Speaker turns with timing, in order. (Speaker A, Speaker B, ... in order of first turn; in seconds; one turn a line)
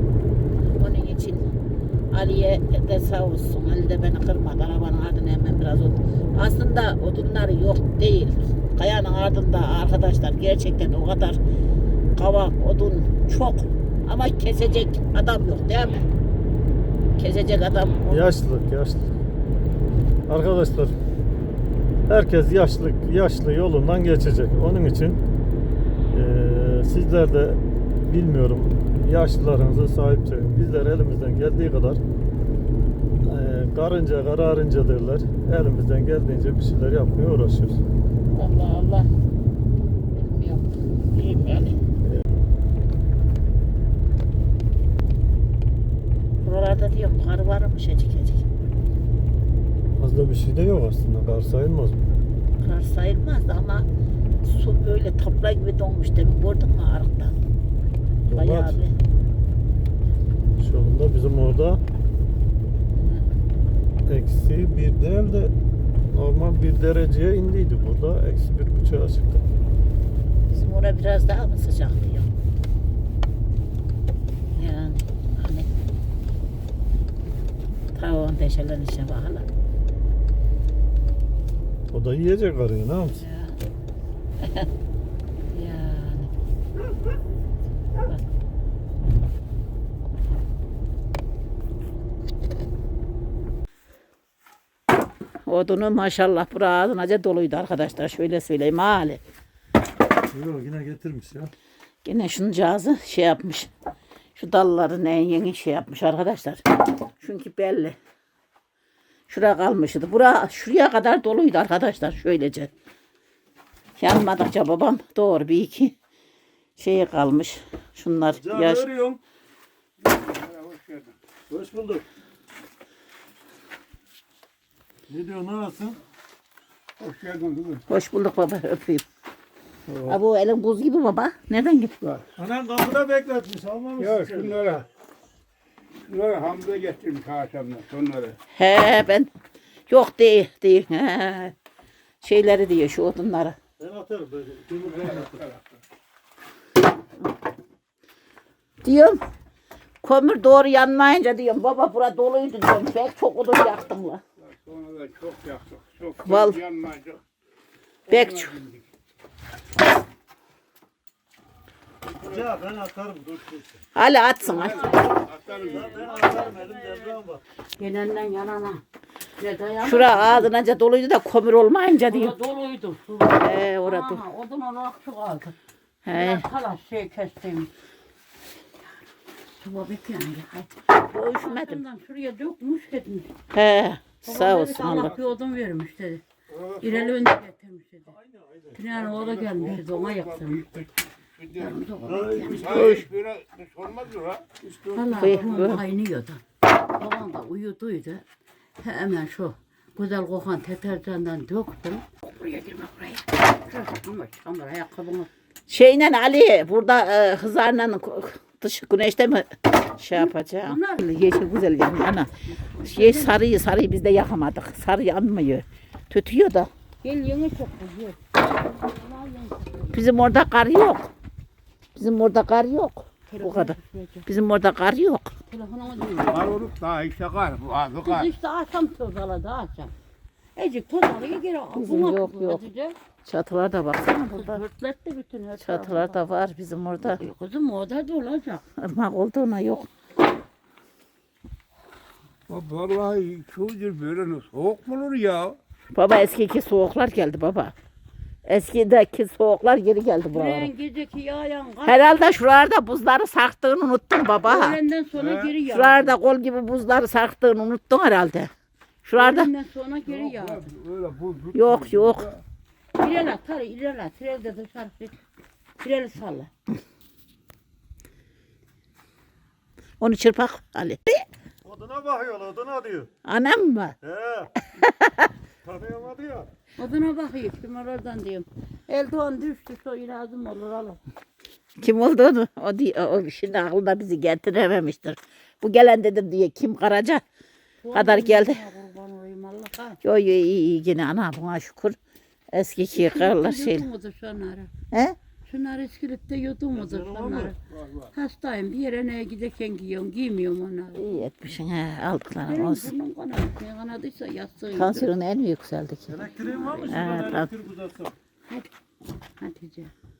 Speaker A: 0.6-1.5
Speaker A: 2.1-11.4
Speaker A: 12.1-16.0
Speaker A: 17.2-18.3
Speaker B: 18.1-19.1
Speaker B: 20.3-20.9
Speaker B: 22.1-25.2
Speaker B: 26.1-32.0
Speaker B: 33.2-37.8
Speaker A: 38.3-39.1
Speaker A: 40.1-41.8
Speaker A: 46.4-48.4
Speaker B: 50.0-52.0
Speaker A: 52.6-53.9
Speaker A: 54.4-57.4
Speaker B: 58.2-58.8
Speaker A: 58.3-58.9
Speaker B: 60.6-61.8
Speaker A: 63.0-63.2
Speaker B: 64.0-65.5
Speaker B: 66.1-69.4
Speaker A: 70.5-72.3
Speaker A: 74.5-75.7
Speaker A: 77.9-79.5
Speaker B: 81.9-83.2
Speaker A: 83.2-83.5
Speaker A: 85.5-86.3
Speaker A: 95.5-99.2
Speaker B: 100.3-101.5
Speaker A: 102.0-103.7
Speaker A: 104.3-106.6
Speaker A: 107.2-108.0
Speaker A: 109.3-112.7
Speaker A: 114.0-115.9
Speaker A: 116.8-118.8
Speaker B: 118.3-119.2
Speaker C: 120.0-121.2
Speaker B: 121.5-122.0
Speaker B: 125.1-126.0
Speaker C: 127.0-127.8
Speaker A: 127.9-129.0
Speaker A: 130.0-131.9
Speaker B: 132.4-134.6
Speaker C: 134.0-134.9
Speaker C: 136.0-138.4
Speaker A: 138.5-139.3
Speaker A: 139.9-141.5
Speaker A: 142.2-143.6
Speaker B: 143.8-145.4
Speaker C: 145.0-145.6
Speaker A: 148.8-149.2
Speaker A: 150.0-154.2
Speaker C: 154.4-157.2
Speaker A: 156.2-156.6
Speaker C: 158.1-158.9
Speaker A: 158.1-158.5
Speaker B: 162.1-163.8
Speaker A: 163.9-164.9
Speaker C: 164.4-165.9
Speaker D: 164.6-167.1
Speaker B: 164.9-167.4
Speaker D: 167.8-168.8
Speaker D: 169.4-170.5
Speaker A: 169.8-172.3
Speaker D: 172.1-175.6
Speaker A: 173.3-174.2
Speaker A: 176.0-176.4
Speaker D: 176.1-177.7
Speaker D: 179.5-180.7
Speaker A: 180.9-181.8
Speaker D: 181.3-183.3
Speaker A: 183.5-185.1
Speaker D: 184.2-186.2
Speaker B: 184.8-185.3
Speaker B: 186.5-187.2
Speaker D: 186.8-188.1
Speaker B: 188.1-189.4
Speaker D: 188.7-190.6
Speaker C: 189.5-191.7
Speaker D: 191.5-192.8
Speaker B: 192.0-193.1
Speaker C: 192.4-194.5
Speaker A: 192.7-193.0
Speaker B: 194.6-195.8
Speaker D: 194.9-198.2
Speaker A: 195.2-195.8
Speaker D: 198.8-205.3
Speaker A: 205.7-212.3
Speaker D: 210.1-211.1
Speaker D: 212.5-213.4
Speaker A: 212.8-216.7
Speaker D: 217.0-220.0
Speaker A: 219.9-221.1
Speaker A: 221.9-225.3
Speaker D: 223.3-224.3
Speaker D: 225.5-226.5
Speaker C: 226.3-228.3
Speaker D: 228.0-229.9
Speaker D: 230.6-233.0
Speaker A: 231.8-232.6
Speaker A: 233.2-234.6
Speaker D: 234.2-236.2
Speaker A: 235.6-237.2
Speaker D: 237.2-238.6
Speaker A: 238.8-239.9
Speaker C: 242.5-245.6
Speaker A: 245.9-247.7
Speaker A: 248.4-250.7
Speaker D: 250.3-252.0
Speaker A: 251.8-254.8
Speaker D: 254.4-256.1
Speaker C: 255.1-255.6
Speaker A: 255.7-258.5
Speaker A: 259.0-259.5
Speaker D: 259.1-260.7
Speaker C: 260.1-262.4
Speaker A: 261.5-262.3
Speaker D: 262.9-265.2
Speaker D: 265.8-266.5
Speaker A: 270.0-271.2
Speaker B: 271.6-273.1
Speaker A: 273.2-273.9
Speaker B: 274.0-274.5
Speaker A: 274.8-275.3
Speaker B: 275.6-276.5
Speaker D: 276.8-281.0
Speaker A: 281.8-287.2
Speaker D: 287.8-290.0
Speaker A: 287.9-288.6
Speaker A: 290.0-292.0
Speaker A: 292.5-293.9
Speaker D: 292.9-294.7
Speaker A: 294.9-295.1
Speaker D: 295.5-297.6
Speaker B: 296.7-297.5
Speaker C: 297.7-298.1
Speaker D: 298.1-301.1
Speaker A: 300.9-302.9
Speaker D: 302.4-305.1
Speaker A: 304.7-306.1
Speaker B: 306.1-308.1
Speaker D: 306.4-307.0
Speaker A: 306.9-307.5
Speaker D: 309.4-309.9